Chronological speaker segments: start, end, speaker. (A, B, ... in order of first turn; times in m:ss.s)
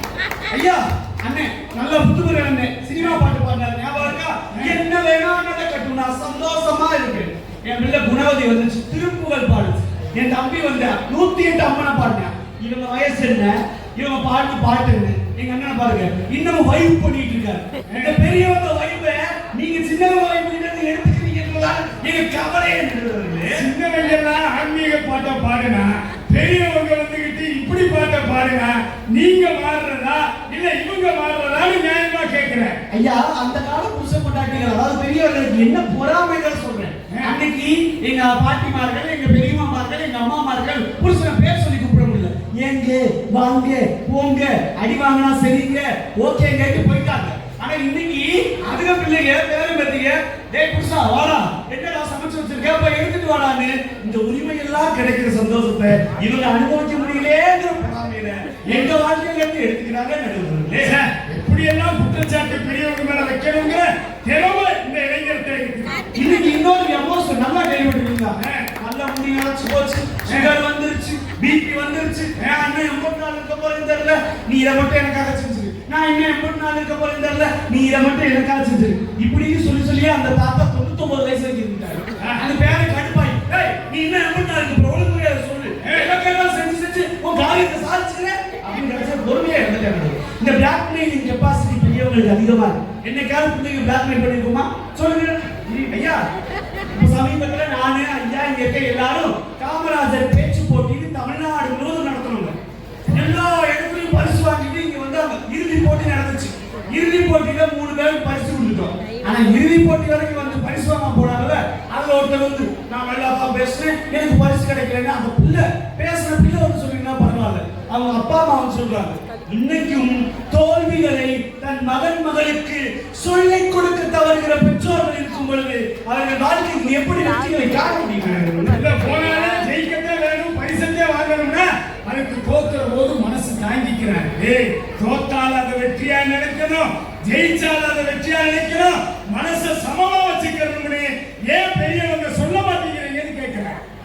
0:00.5-0:23.7 A
0:17.9-0:18.2 B
0:23.5-0:32.8 B
0:32.9-1:01.0 A
0:37.1-0:37.4 B
1:00.8-1:06.0 B
1:06.1-1:36.2 A
1:08.4-1:08.7 B
1:25.8-1:26.1 B
1:36.9-1:42.6 A
1:43.1-2:08.7 A
2:08.4-2:23.8 B